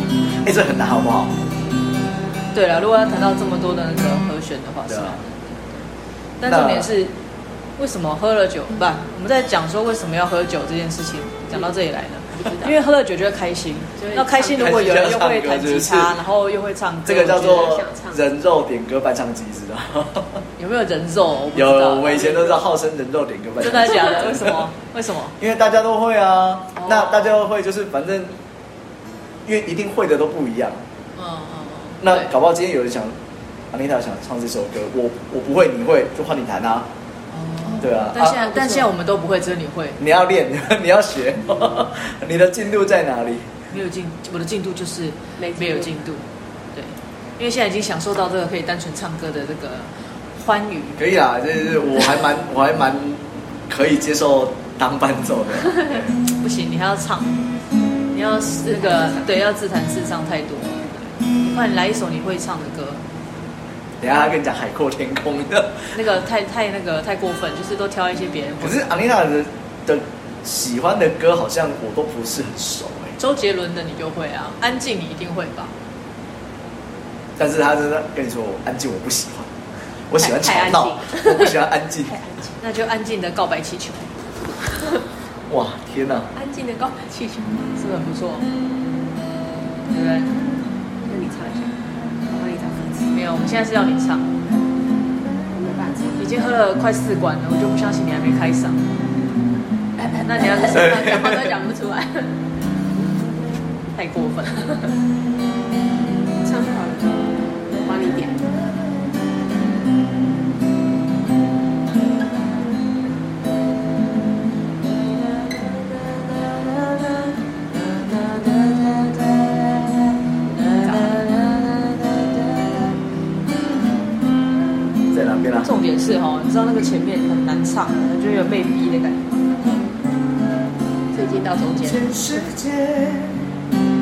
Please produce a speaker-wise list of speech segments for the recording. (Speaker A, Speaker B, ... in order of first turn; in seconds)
Speaker A: 0.4-1.3, 4.9-5.2, 6.4-6.9, 14.6-16.1, 17.1-20.4, 21.5-24.7, 25.4-28.3, 29.4-30.8, 32.0-33.1, 33.7-36.9, 37.8-38.8, 40.0-43.5, 51.0-56.1, 64.0-65.9, 68.6-73.2, 77.4-79.5, 80.1-82.1, 85.5-86.3, 100.7-101.5, 125.1-125.7, 131.8-133.5
Speaker B: 2.5-5.6, 6.4-7.1, 7.8-17.8, 20.6-22.6, 23.6-25.4, 26.7-27.4, 31.2-32.3, 37.3-40.0, 43.7-46.2, 46.7-51.0, 56.3-57.3, 58.1-63.0, 65.9-68.9, 73.2-75.7, 82.6-84.1, 87.8-88.5, 89.9-90.3, 93.1-94.3, 96.2-98.8, 100.0-101.1, 103.9-104.8, 115.4-123.0, 125.6-129.3
Speaker C: 12.3-12.8, 14.0-14.7, 17.4-18.2, 45.4-45.9, 58.6-59.3, 80.2-82.5, 86.3-87.6, 91.0-93.1, 95.5-96.2, 100.0-102.3, 106.4-108.4, 131.1-132.1